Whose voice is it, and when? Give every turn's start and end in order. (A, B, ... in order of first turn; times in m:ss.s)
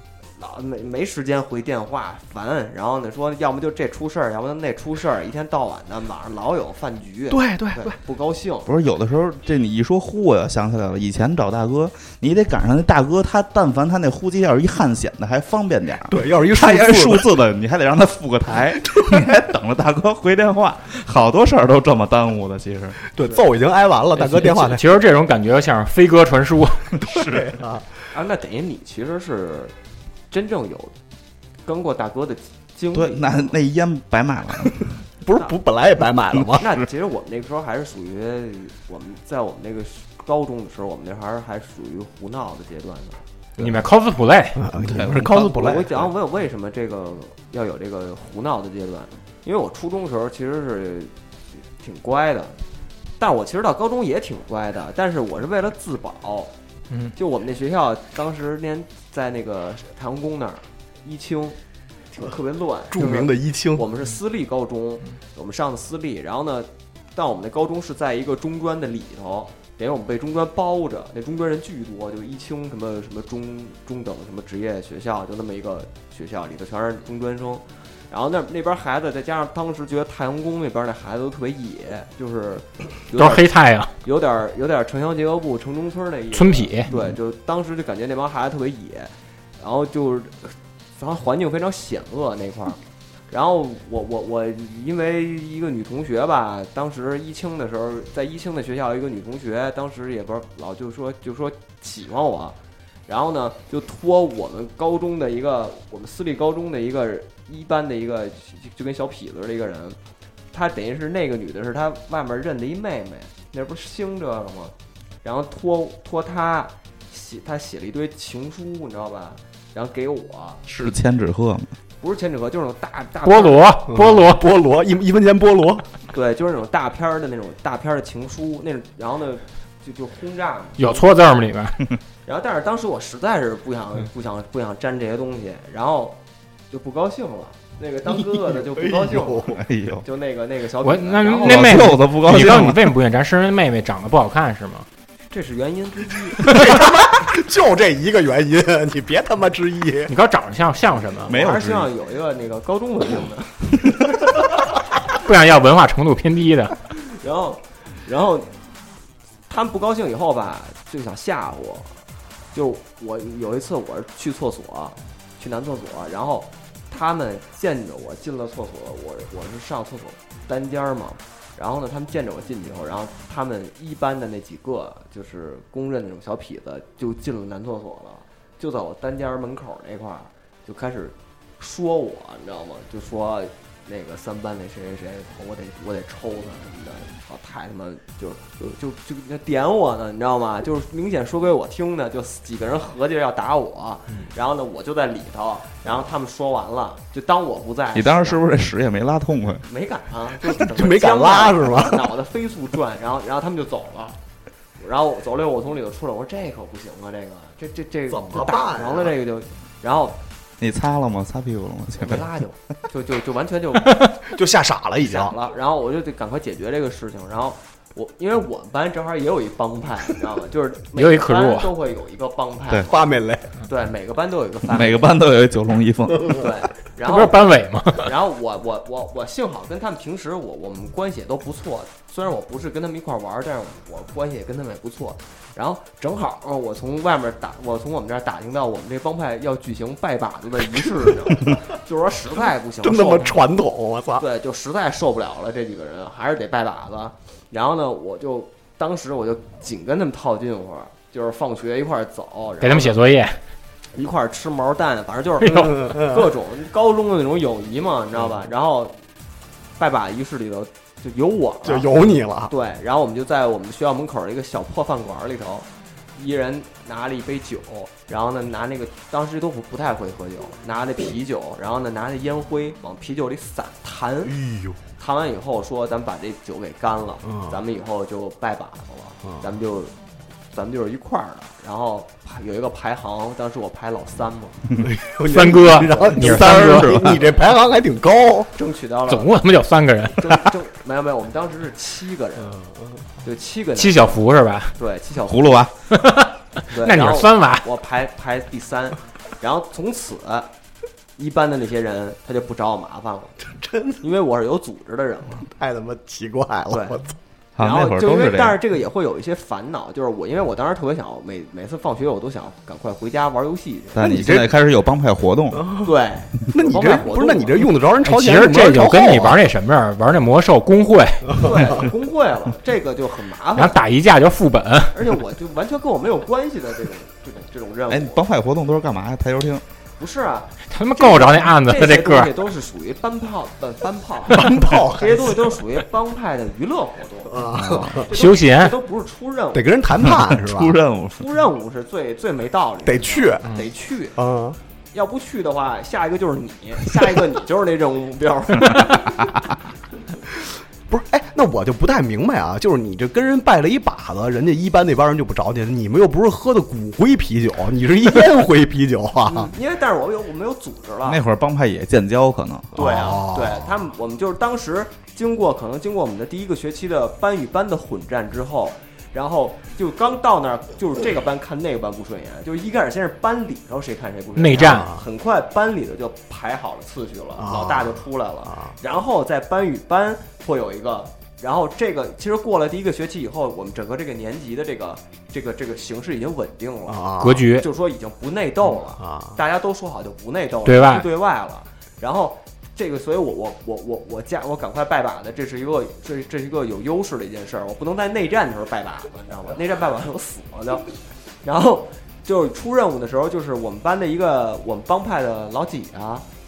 0:00.4-0:08.7 A
0:07.3-0:08.0 B
0:08.7-0:23.0 C
0:16.1-0:17.3 B
0:19.0-0:19.3 B
0:23.1-0:24.9 B
0:24.2-0:27.0 D
0:26.9-0:27.6 C
0:27.2-0:27.9 B
0:28.1-0:29.7 A
0:30.3-0:30.9 A
0:31.7-0:33.5 A
0:32.9-0:35.0 C
0:35.2-0:36.7 B
0:36.6-0:43.2 A
0:43.6-0:43.8 B
0:43.6-0:44.6 D
0:44.6-0:45.9 B
0:44.8-0:46.1 C
0:45.1-0:51.1 A
0:51.8-0:52.6 A
0:53.2-0:56.5 A
0:57.2-1:01.6 A
1:02.1-1:23.5 A
1:02.9-1:03.8 B
1:23.2-1:23.9 D
1:24.0-1:32.8 A
1:26.3-1:26.9 D
1:33.3-1:50.0 A
1:50.5-2:00.6 A
2:00.7-2:01.7 C
2:02.0-2:03.8 A
2:03.2-2:04.5 D
2:03.9-2:05.9 B
2:06.1-2:11.0 A
2:10.8-2:11.8 D
2:12.3-2:16.2 A
2:16.7-2:22.0 A
2:18.1-2:19.6 B
2:19.5-2:20.0 C
2:20.8-2:24.9 D
2:21.4-2:22.9 C
2:25.3-2:26.8 A
2:26.4-2:26.8 D
2:26.5-2:30.1 B
2:30.1-2:31.4 D
2:31.3-2:31.9 C
2:31.3-2:34.1 A
2:35.2-2:36.8 D
2:37.0-2:38.5 A
2:39.5-2:42.0 A
2:42.5-3:18.4 A
3:17.9-3:19.6 C
3:19.6-3:24.2 A
3:20.5-3:22.1 B
3:24.8-3:30.2 A
3:28.1-3:29.1 B
3:30.6-3:32.3 C
3:32.0-3:34.1 A
3:34.3-3:35.4 B
3:35.0-3:43.0 A
3:41.0-3:41.7 D
3:42.9-3:43.6 B
3:43.7-3:45.1 A
3:44.7-3:46.5 C
3:46.2-4:03.4 A
3:47.0-3:48.1 D
4:02.8-4:04.2 B
4:04.2-4:13.0 A
4:12.6-4:13.4 D
4:13.9-4:19.0 A
4:15.4-4:15.8 D
4:15.6-4:16.3 B
4:19.8-4:21.9 A
4:21.6-4:22.5 B
4:22.5-4:34.4 A
4:34.3-4:34.8 B
4:35.0-4:39.9 A
4:37.2-4:37.6 B
4:40.5-4:44.7 A
4:44.8-4:48.6 B
4:45.3-4:47.1 D
4:46.2-4:47.2 C
4:48.6-4:49.3 A
4:49.1-4:50.4 D
4:50.1-4:52.6 A
4:52.5-4:53.0 B
4:53.2-4:54.2 A
4:53.8-4:54.8 D
4:54.8-4:55.7 A
4:55.3-4:55.7 C
4:55.9-4:57.6 D
4:56.7-5:00.5 A
5:01.2-5:03.4 A
5:03.5-5:04.0 B
5:04.0-5:05.5 A
5:05.4-5:07.2 B
5:06.7-5:07.0 A
5:07.6-5:08.6 C
5:07.6-5:14.3 A
5:14.0-5:15.7 C
5:14.0-5:14.5 B
5:15.5-5:15.9 B
5:15.8-5:17.7 A
5:16.5-5:19.4 B
5:18.0-5:21.4 D
5:21.3-5:23.8 A
5:21.4-5:21.7 B
5:23.6-5:25.0 D
5:24.9-5:28.2 A
5:27.9-5:29.6 C
5:30.0-5:39.7 A
5:30.7-5:32.3 D
5:34.3-5:35.5 B
5:37.3-5:38.1 B
5:37.6-5:38.0 C
5:38.1-5:38.8 D
5:39.5-5:40.8 B
5:40.0-5:41.3 C
5:41.1-5:44.2 A
5:42.8-5:43.5 B
5:44.2-5:44.6 B
5:44.9-5:49.3 A
5:48.7-5:49.3 C
5:50.3-5:59.5 B
5:59.3-6:01.2 A
6:01.1-6:02.7 C
6:02.7-6:03.7 B
6:02.7-6:46.3 A
6:14.4-6:14.9 D
6:14.6-6:15.0 B
6:17.4-6:18.8 B
6:26.9-6:27.4 B
6:27.2-6:27.7 D
6:29.0-6:29.4 B
6:30.7-6:31.1 D